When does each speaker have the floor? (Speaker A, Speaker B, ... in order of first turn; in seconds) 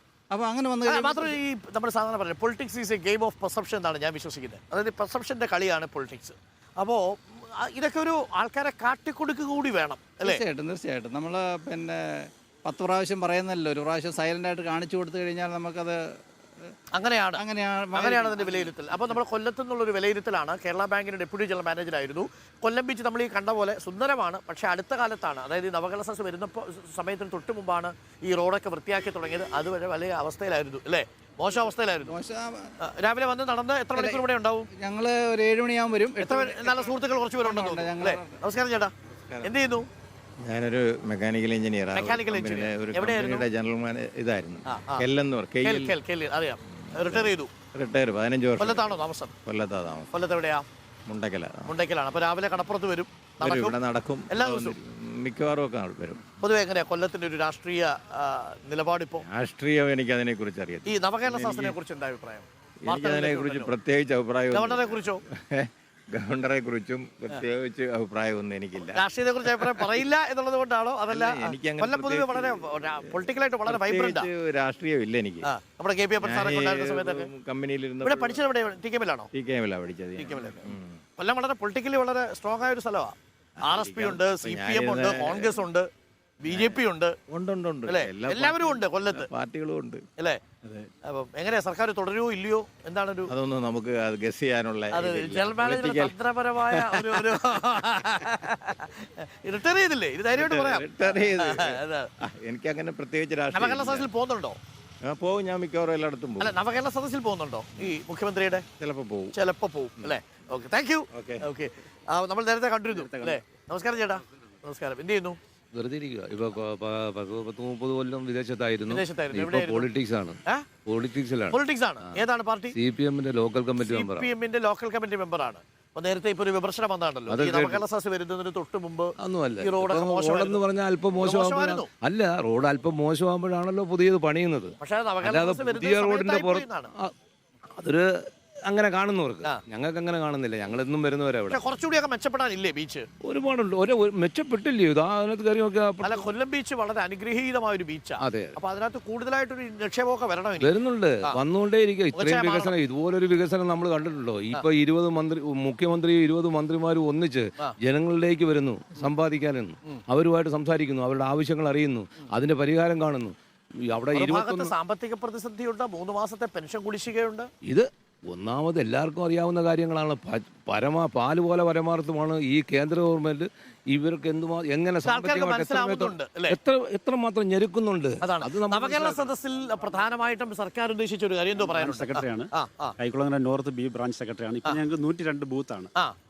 Speaker A: 0.3-1.4, 10.2-16.7, 17.4-18.7, 32.1-32.8, 33.9-34.2, 34.7-38.4
Speaker B: 0.9-10.4, 16.9-17.4, 17.9-32.2, 32.8-34.7, 36.2-39.9, 41.9-43.5, 44.6-45.0, 45.6-47.5, 48.6-49.3, 50.1-50.6, 51.6-53.8, 54.3-54.8, 56.4-59.2, 60.9-63.7, 64.5-65.2, 68.8-74.3, 75.4-77.3, 78.0-79.3, 80.2-85.9, 86.4-87.1, 87.9-89.3, 91.0-93.3, 94.9-102.1, 103.5-104.6, 106.4-108.7, 109.3-115.4, 118.9-119.9, 121.5-122.7, 123.8-130.6, 131.2-131.9, 134.8-136.9, 141.5-143.1, 146.0-150.7, 152.1-152.7, 164.1-167.5, 175.0-176.6, 178.2-182.9
Speaker C: 39.1-39.5, 40.4-45.9, 46.9-50.1, 51.0-51.7, 53.4-56.2, 59.2-61.8, 62.8-70.0, 71.1-75.5, 76.2-78.4, 79.3-81.0, 83.6-85.7, 86.5-90.0, 93.2-96.2, 96.7-97.6, 100.3-104.1, 105.0-106.6, 108.8-109.4, 111.1-111.5
Speaker D: 115.7-122.2, 122.7-124.3, 127.3-127.8, 129.2-137.1, 137.8-138.1, 138.7-141.6, 143.2-146.3, 148.2-148.6, 150.6-163.3, 163.9-164.7, 167.6-179.3
Speaker E: 181.6-185.9